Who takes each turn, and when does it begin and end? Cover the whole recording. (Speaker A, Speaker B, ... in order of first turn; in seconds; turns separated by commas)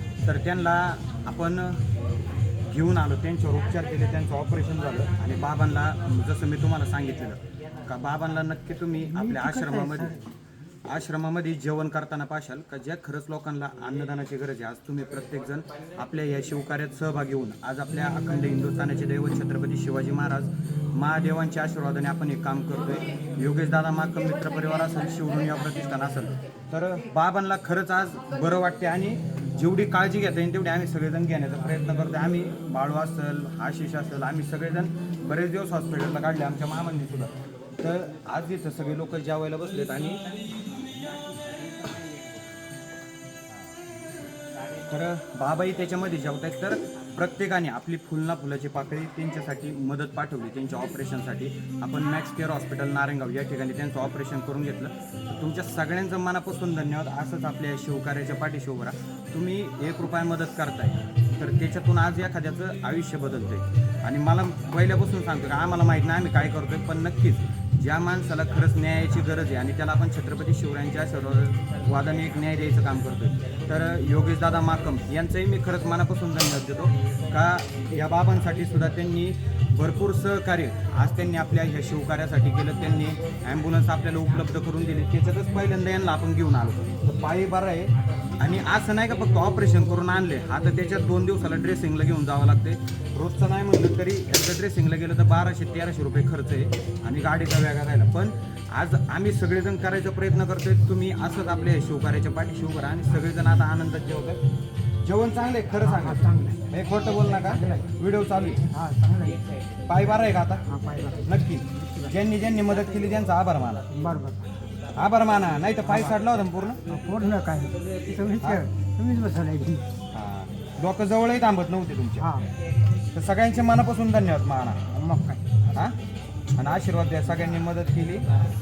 Speaker A: 0.2-1.8, Speaker A: 2.6-10.2, Speaker B: 9.1-10.2, Speaker A: 10.8-40.2, Speaker A: 44.9-104.4, Speaker A: 105.0-108.6, Speaker B: 105.8-107.9, Speaker B: 108.7-109.4, Speaker A: 109.9-110.6, Speaker B: 110.6-112.2, Speaker A: 111.2-113.9, Speaker B: 113.9-114.5, Speaker A: 114.9-116.8, Speaker B: 115.8-116.2, Speaker B: 116.8-119.9, Speaker A: 120.1-122.3, Speaker B: 122.2-122.5, Speaker A: 123.1-124.8, Speaker B: 124.9-125.6, Speaker A: 126.6-128.3